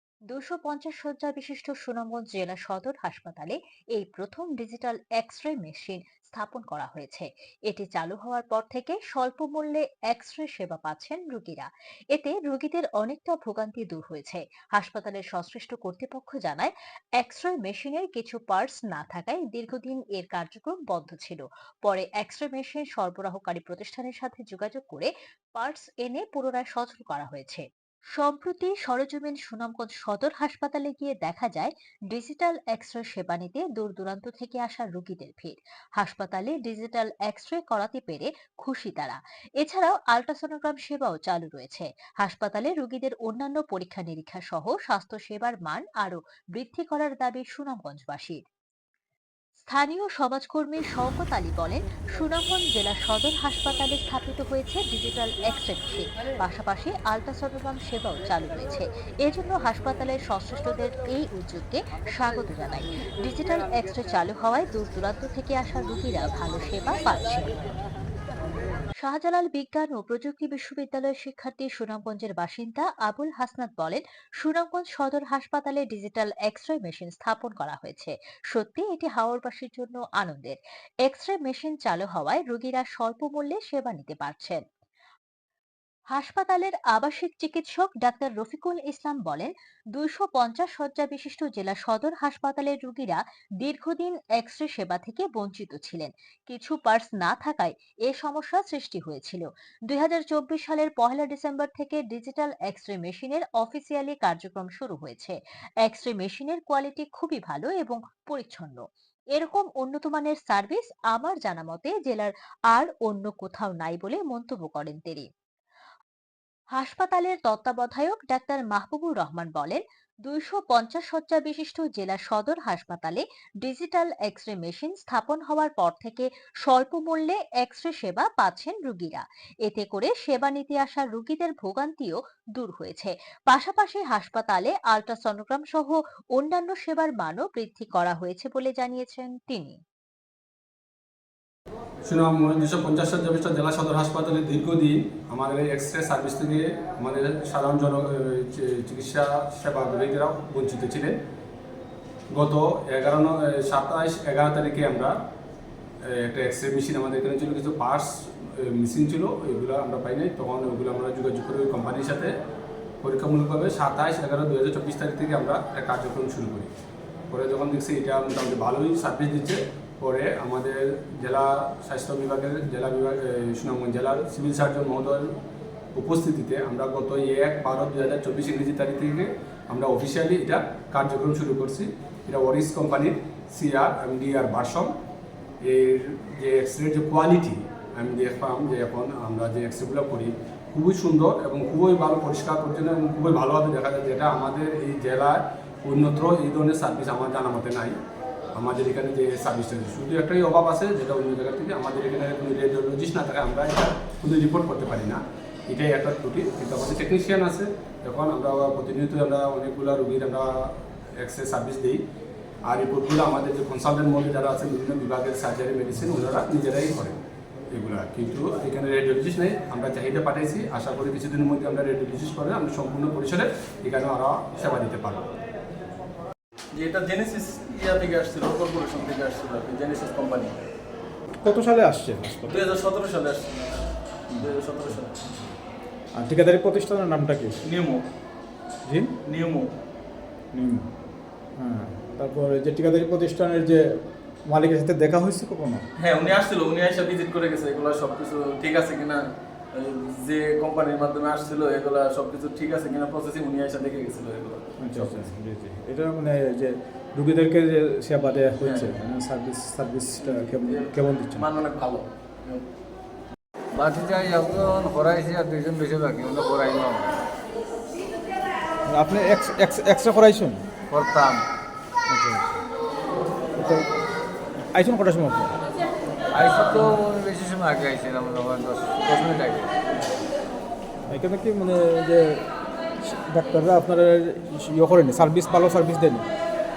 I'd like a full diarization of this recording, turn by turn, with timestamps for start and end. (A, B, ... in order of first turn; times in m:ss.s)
0:00.3-0:48.4 A
0:49.7-1:07.5 A
1:09.0-1:24.6 A
1:26.1-1:48.8 A
1:49.4-1:55.3 A
1:56.8-2:19.8 A
2:22.1-2:31.2 B
2:32.3-2:35.2 B
2:36.1-2:42.3 B
2:43.0-2:46.7 B
2:47.3-2:55.3 B
2:56.0-3:04.9 B
3:05.6-3:18.0 B
3:18.6-3:32.0 B
3:32.7-3:37.2 B
3:37.7-3:45.3 B
3:46.7-3:50.6 C
3:51.4-3:52.7 D
3:52.5-3:55.2 C
3:54.3-3:55.5 D
3:56.1-3:57.6 D
3:57.6-3:58.0 C
3:58.9-3:59.2 D
3:59.2-3:59.7 C
4:00.5-4:00.9 D
4:01.6-4:05.8 D
4:06.0-4:15.2 C
4:14.8-4:21.5 D
4:18.6-4:19.0 C
4:20.2-4:22.7 C
4:23.7-4:27.2 E
4:28.9-4:30.7 D
4:30.9-4:31.4 E
4:32.1-4:32.6 D
4:33.6-4:33.9 D
4:34.7-4:35.6 D
4:36.3-4:39.7 E
4:41.1-4:42.4 D
4:43.0-4:46.3 D